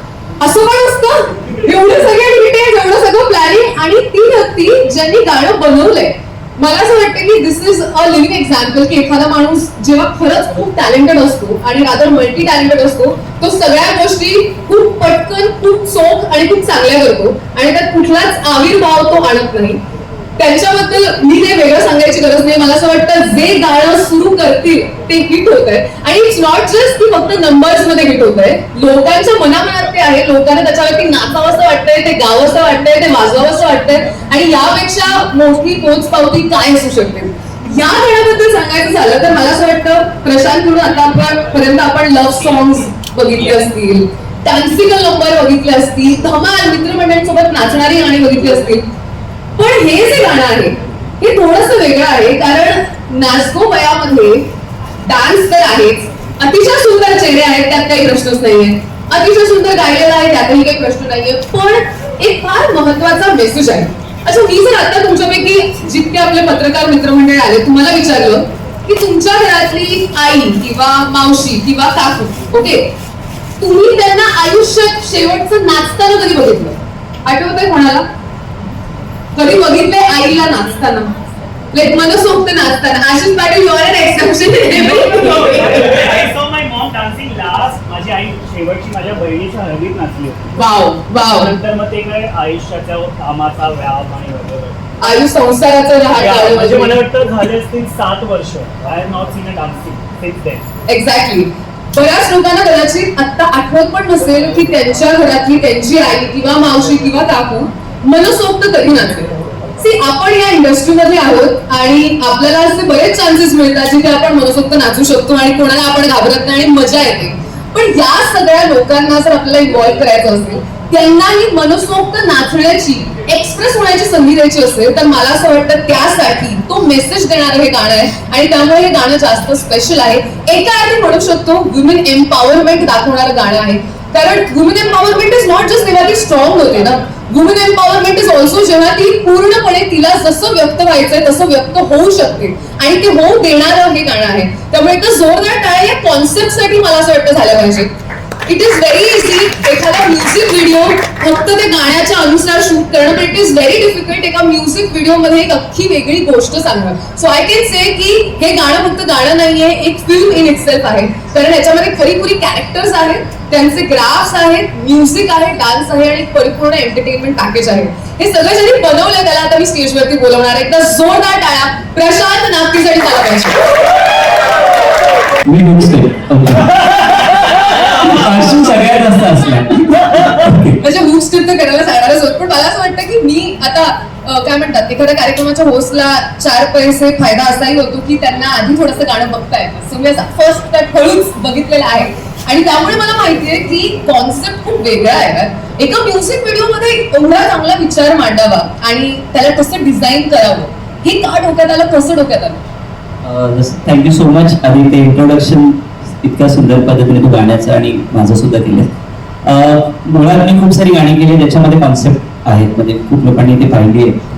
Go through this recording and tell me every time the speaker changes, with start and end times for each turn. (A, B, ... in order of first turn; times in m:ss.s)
0:00.4-0:19.8 A
0:20.4-0:48.8 A
0:49.6-1:12.9 A
1:13.6-1:18.0 A
1:19.3-1:21.1 A
1:21.7-1:25.7 A
1:25.5-1:30.6 B
1:30.6-1:31.5 A
1:31.4-1:35.0 B
1:35.0-1:37.0 A
1:36.1-1:40.6 B
1:40.9-2:27.9 A
2:28.5-2:53.6 A
2:55.4-3:00.8 C
3:00.8-3:22.6 A
3:23.2-3:28.9 C
3:29.4-3:34.1 C